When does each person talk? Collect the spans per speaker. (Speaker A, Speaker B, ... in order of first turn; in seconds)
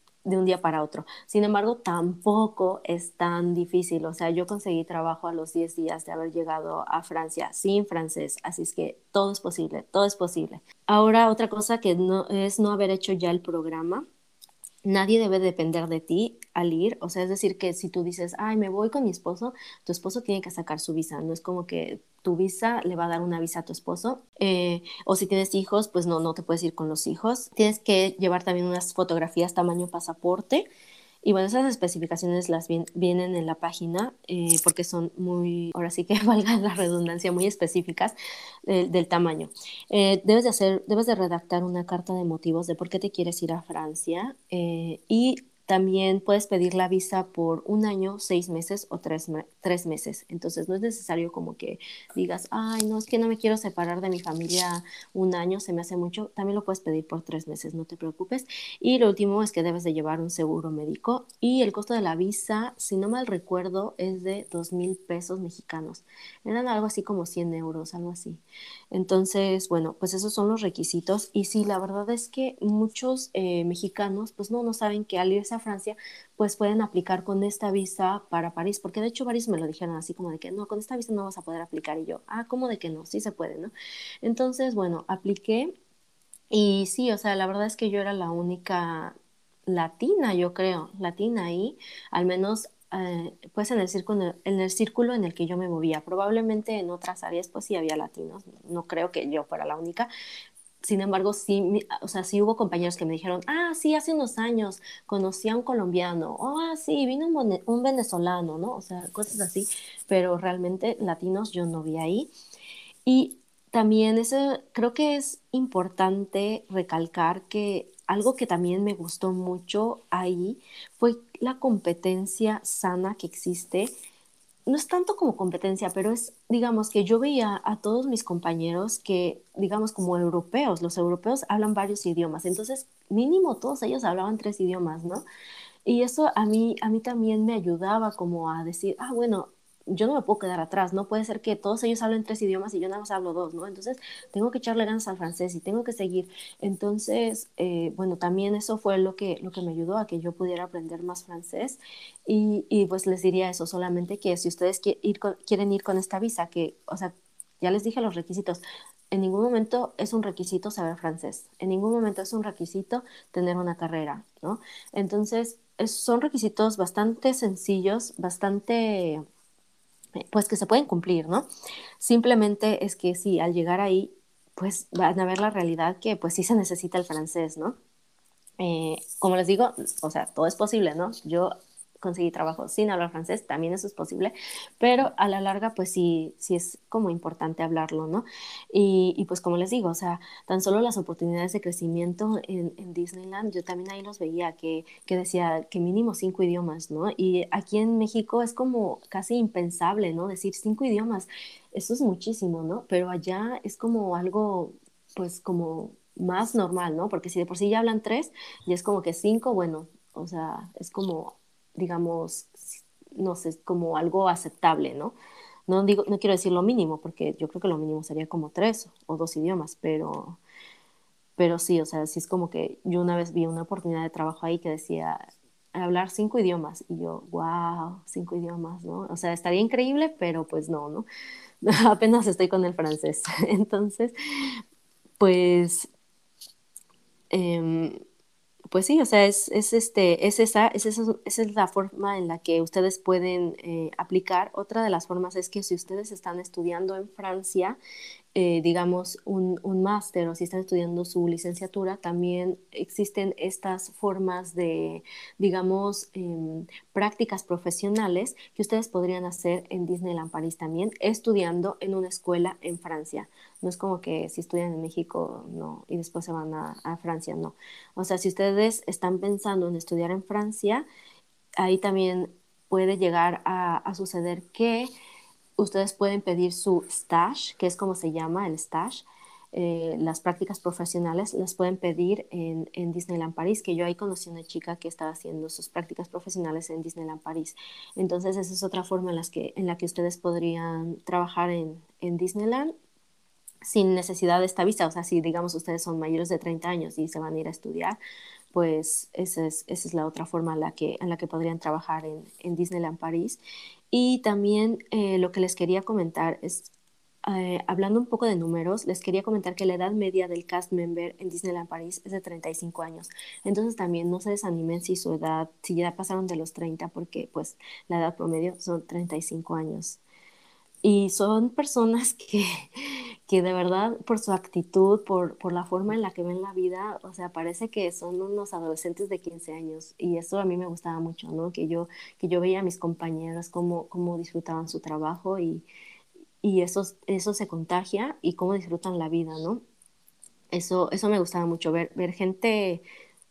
Speaker A: 0.2-14.1, 14.8-30.7, 31.2-38.1, 38.7-83.7, 84.2-85.7, 86.5-89.1, 89.7-100.1, 100.8-112.3, 113.0-123.9, 124.7-135.2, 135.8-169.2, 170.2-171.5, 172.0-177.8, 178.6-215.1, 215.7-220.4, 221.4-225.2, 225.7-231.1, 231.6-234.1, 235.2-235.9, 237.3-238.0, 238.7-247.8, 248.3-270.9, 271.6-274.9, 275.6-292.7, 293.6-298.0, 298.5-303.4, 303.9-306.7, 307.2-320.0, 320.8-322.5, 323.3-335.6, 336.4-339.6, 340.5-342.8